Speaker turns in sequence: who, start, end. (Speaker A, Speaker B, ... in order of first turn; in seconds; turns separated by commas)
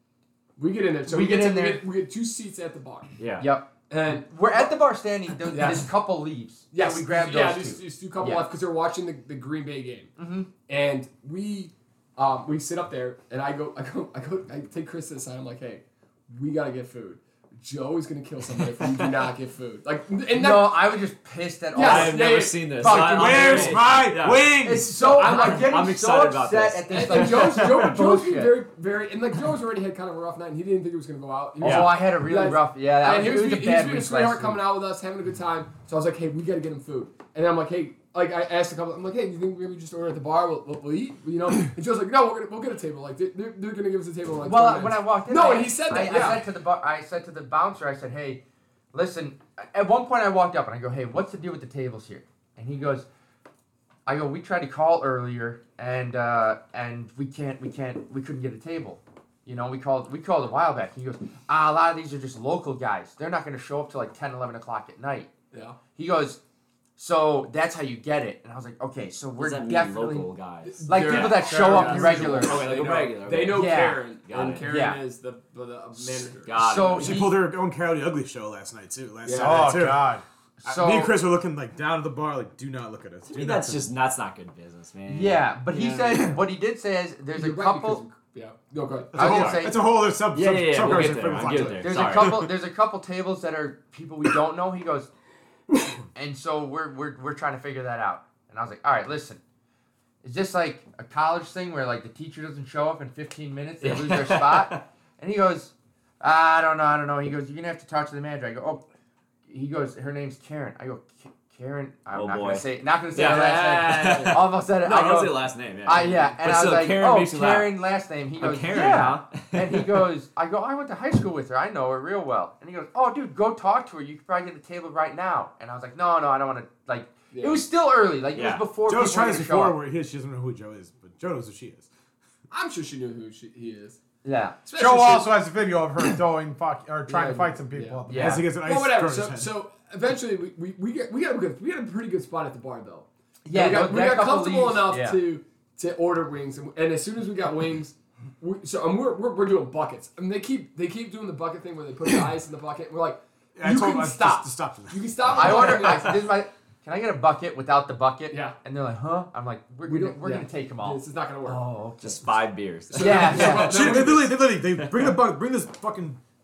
Speaker A: 0.6-3.1, Speaker B: 1.1-1.9, Speaker C: 3.2-3.5, Speaker B: 3.4-8.5, Speaker A: 3.9-4.7, Speaker A: 5.5-5.9, Speaker A: 6.7-10.1, Speaker B: 10.2-10.5, Speaker A: 10.7-20.8, Speaker C: 18.6-19.3, Speaker B: 20.3-23.9, Speaker A: 21.7-23.1, Speaker C: 21.8-28.0, Speaker D: 22.9-25.3, Speaker B: 24.6-28.6, Speaker A: 25.2-25.8, Speaker A: 26.9-46.4, Speaker C: 31.6-32.0, Speaker B: 31.6-34.6, Speaker B: 44.5-48.4, Speaker B: 48.9-53.1, Speaker B: 54.1-65.3, Speaker A: 65.5-65.8, Speaker B: 66.0-66.4, Speaker B: 67.0-70.3, Speaker C: 69.4-74.7, Speaker A: 70.7-76.6, Speaker B: 70.9-72.7, Speaker B: 73.5-74.0, Speaker B: 74.7-75.0, Speaker C: 76.4-77.2, Speaker B: 76.5-77.4, Speaker D: 77.0-80.1, Speaker A: 79.2-79.8, Speaker E: 79.4-80.2, Speaker B: 80.6-81.2, Speaker D: 80.7-83.9, Speaker C: 83.3-86.3, Speaker B: 85.1-88.0, Speaker A: 87.3-89.4, Speaker D: 89.1-92.5, Speaker B: 89.2-89.8, Speaker C: 89.2-89.7, Speaker C: 90.3-92.4, Speaker B: 90.9-95.1, Speaker D: 95.7-96.0, Speaker B: 96.2-99.4, Speaker B: 100.2-108.8, Speaker C: 103.8-104.8, Speaker B: 109.5-129.8, Speaker C: 112.1-117.7, Speaker A: 113.2-114.4, Speaker C: 118.4-120.0, Speaker A: 127.3-127.6, Speaker C: 128.3-128.7, Speaker D: 128.9-131.9, Speaker A: 132.5-134.0, Speaker B: 134.2-134.6, Speaker A: 134.7-135.4, Speaker E: 134.8-138.5, Speaker A: 137.1-156.3, Speaker B: 138.1-138.4, Speaker D: 138.1-139.5, Speaker B: 143.4-145.2, Speaker D: 153.6-156.0, Speaker B: 155.3-162.4, Speaker A: 158.3-158.6, Speaker A: 159.9-161.6, Speaker C: 162.0-163.8, Speaker A: 162.9-164.4, Speaker B: 162.9-164.1, Speaker D: 163.3-166.2, Speaker C: 164.8-165.2